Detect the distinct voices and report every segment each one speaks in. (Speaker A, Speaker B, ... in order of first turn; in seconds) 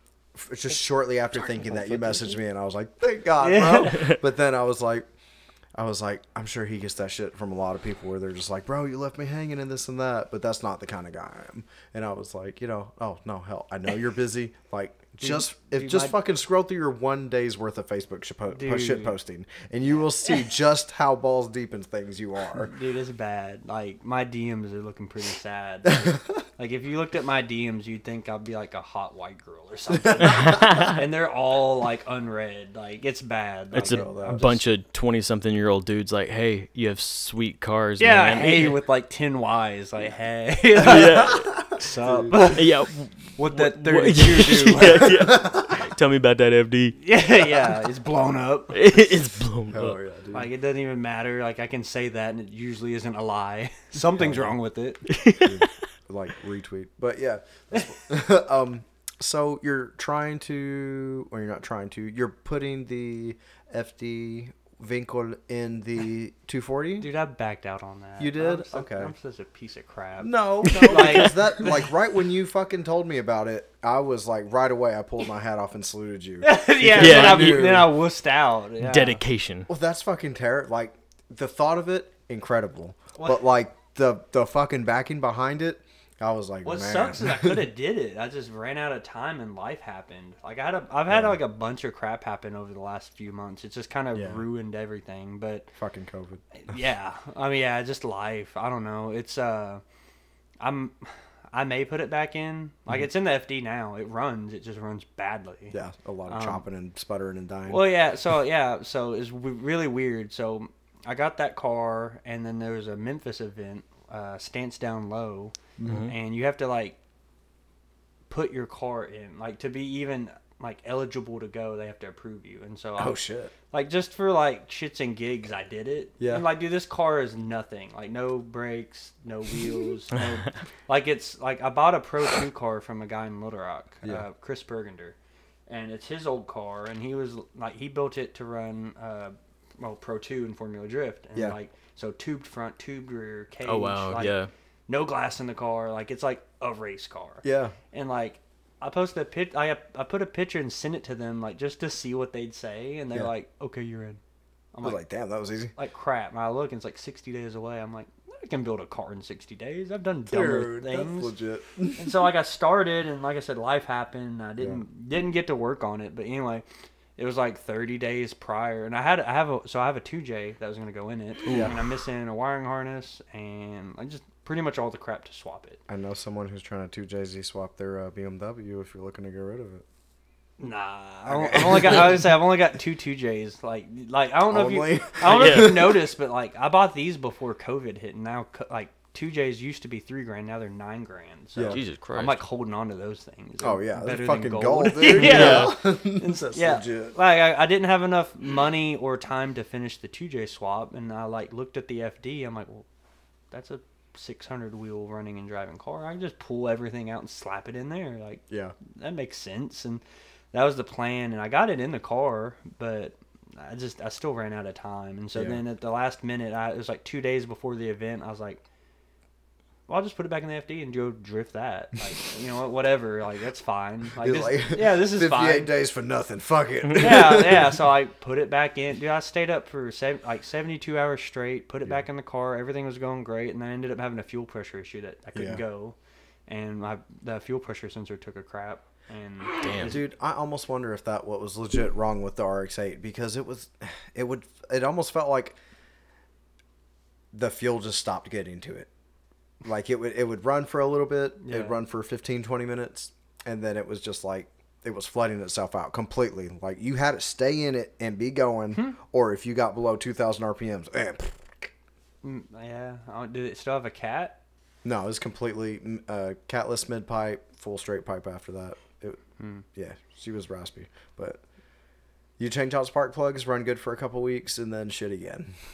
Speaker A: 0.3-5.1, 5.8-22.7, 33.8-34.6, 42.0-42.4, 49.7-50.5, 54.2-54.5, 55.4-67.1, 68.2-69.1, 70.2-77.9, 79.7-87.7, 91.1-91.4, 94.1-94.5, 95.8-96.4, 105.7-107.9, 115.8-116.1, 123.0-123.5, 126.2-126.5, 147.4-147.8, 154.8-155.8, 160.3-162.1, 171.5-171.7, 175.9-179.8, 181.3-182.2, 184.5-186.0, 191.6-191.8, 193.6-197.2, 208.5-208.8, 215.3-215.6, 224.2-227.7, 235.3-235.6, 239.8-245.6, 247.3-248.9, 249.6-261.7, 264.8-269.2, 269.8-271.4, 272.4-275.5
Speaker B: 3.4-4.1, 15.2-16.2, 18.5-19.2, 22.6-34.6, 38.0-42.7, 43.4-45.3, 47.0-48.8, 50.3-55.1, 67.0-71.8, 76.4-79.2, 83.2-83.4, 86.6-95.7, 96.5-99.8, 100.6-105.8, 106.3-106.6, 107.7-117.0, 118.3-135.2, 135.7-144.4, 144.9-154.2, 154.7-155.0, 155.8-161.3, 162.0-166.6, 167.2-175.8, 180.6-202.8, 203.5-210.0, 210.5-218.6, 219.9-225.7, 227.0-236.0, 236.5-240.0, 251.4-251.8, 262.2-264.4, 269.4-269.6
Speaker C: 3.9-4.2, 30.2-31.0, 33.7-38.8, 40.8-41.7, 42.4-47.0, 48.7-50.0, 55.1-55.7, 70.7-71.3, 76.9-77.9, 78.8-79.7, 115.8-116.1, 143.6-144.5, 185.2-185.9, 191.7-192.4, 195.1-195.8, 239.6-240.0